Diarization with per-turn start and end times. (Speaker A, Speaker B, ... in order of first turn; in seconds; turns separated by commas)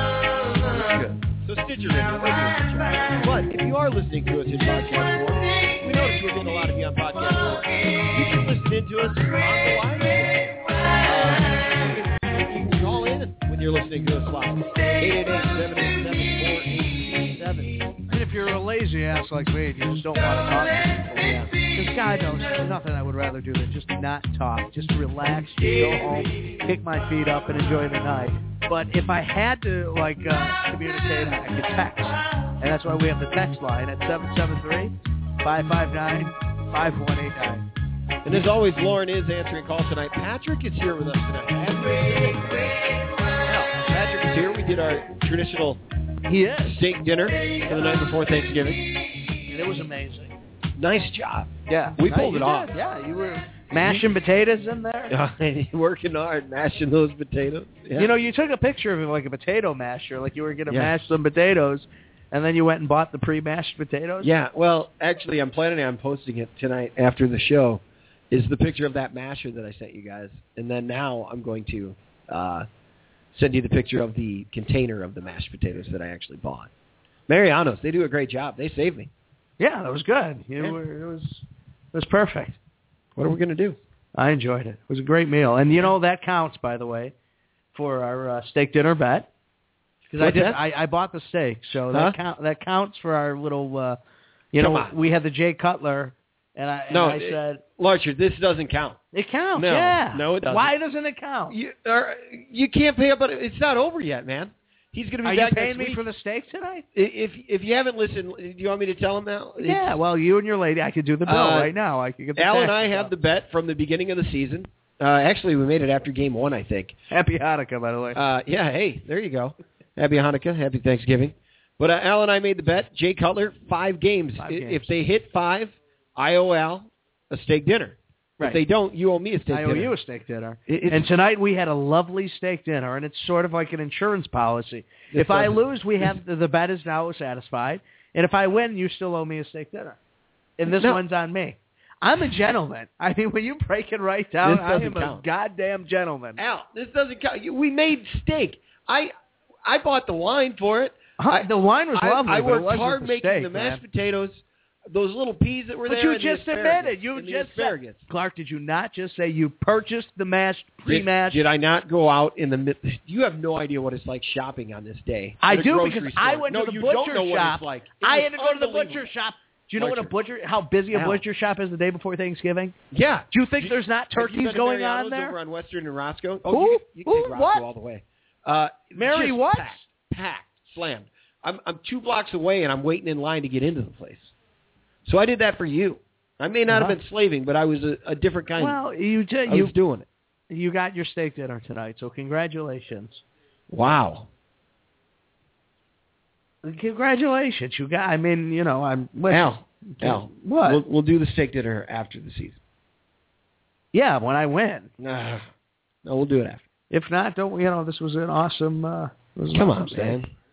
Speaker A: 0.4-17.9, Speaker B: 18.1-37.7, Speaker A: 21.1-21.5, Speaker A: 38.2-45.8, Speaker B: 46.3-46.8, Speaker A: 46.6-48.9, Speaker B: 49.5-50.3, Speaker A: 50.8-52.7, Speaker B: 51.7-55.1, Speaker A: 53.8-54.0, Speaker A: 55.1-58.1, Speaker B: 57.9-64.3, Speaker A: 60.7-60.9, Speaker A: 64.2-72.7, Speaker A: 73.3-76.7, Speaker A: 77.3-79.1, Speaker B: 79.6-82.6, Speaker A: 83.2-83.8, Speaker B: 84.1-87.1, Speaker B: 87.7-89.3, Speaker B: 90.1-94.0, Speaker A: 90.2-90.6, Speaker A: 91.9-92.2, Speaker B: 94.5-97.6, Speaker A: 94.6-95.0, Speaker A: 96.9-99.0, Speaker B: 99.1-101.6, Speaker A: 99.5-100.7, Speaker A: 101.5-106.0, Speaker B: 105.2-106.8, Speaker A: 106.9-109.9, Speaker B: 109.6-113.1, Speaker A: 111.2-111.7, Speaker A: 112.3-116.9, Speaker B: 117.1-118.2, Speaker A: 118.1-129.9, Speaker B: 124.4-124.9, Speaker B: 129.5-140.0, Speaker A: 130.7-131.1, Speaker A: 135.1-136.1, Speaker B: 140.6-146.4, Speaker A: 140.7-141.0, Speaker A: 144.4-145.2, Speaker A: 146.4-149.1, Speaker A: 149.6-158.0, Speaker B: 151.2-153.8, Speaker B: 155.9-161.4, Speaker A: 160.9-169.1, Speaker B: 165.4-172.7, Speaker A: 169.8-170.1, Speaker A: 170.9-171.2, Speaker A: 172.9-184.3, Speaker B: 173.3-175.4, Speaker B: 176.5-177.7, Speaker B: 178.9-179.8, Speaker A: 185.1-188.8, Speaker B: 186.7-187.0, Speaker B: 188.6-189.7, Speaker A: 189.4-190.1, Speaker B: 190.5-193.2, Speaker A: 193.7-194.3, Speaker B: 196.6-200.8, Speaker A: 199.3-202.6, Speaker B: 203.9-204.9, Speaker A: 205.0-205.5, Speaker A: 206.0-206.6, Speaker B: 206.9-210.2, Speaker A: 209.5-210.3